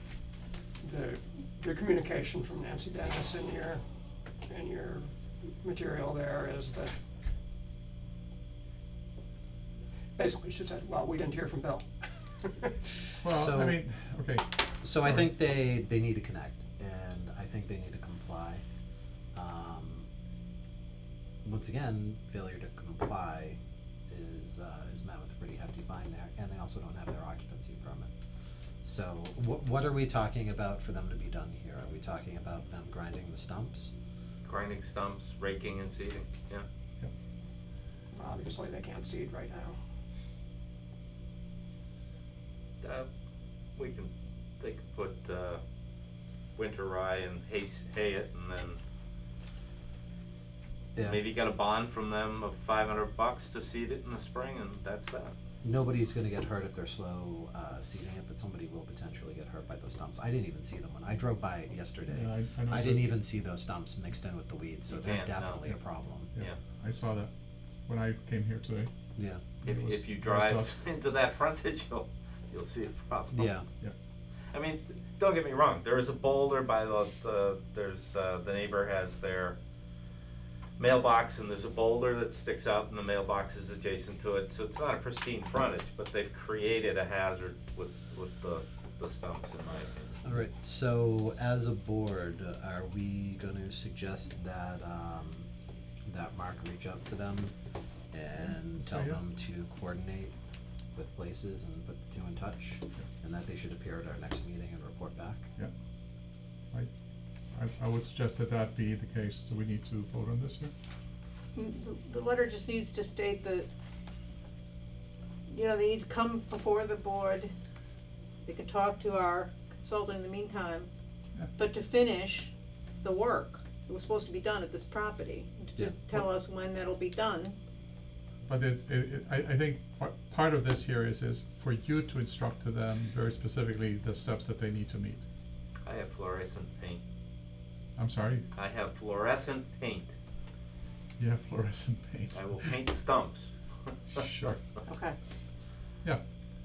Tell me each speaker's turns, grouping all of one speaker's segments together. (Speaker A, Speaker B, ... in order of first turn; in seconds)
Speaker A: 0.8-3.8, 4.5-5.1, 5.6-7.0, 10.2-12.8, 38.1-39.8
Speaker B: 13.2-15.3, 62.1-63.2, 66.3-67.3, 67.8-68.9, 69.7-70.7, 98.8-99.2, 107.5-110.7, 128.5-135.2, 138.0-138.5, 141.2-142.7, 144.1-144.6
Speaker C: 13.3-13.8, 14.8-18.6, 19.3-20.1, 21.4-28.1, 28.8-33.9, 51.0-51.2, 55.6-66.3, 69.2-69.4, 73.3-73.7, 90.2-95.5, 96.1-97.5, 98.1-100.3, 101.0-105.5
Speaker D: 34.5-36.7, 42.8-43.1, 43.8-45.6, 46.6-48.8, 51.0-55.4, 64.9-65.7, 69.6-73.5, 74.5-79.6, 80.8-90.2, 135.8-137.0, 138.6-140.1, 142.3-144.2
Speaker E: 111.5-113.7, 115.5-117.5, 118.5-120.9, 121.5-127.6, 144.8-145.2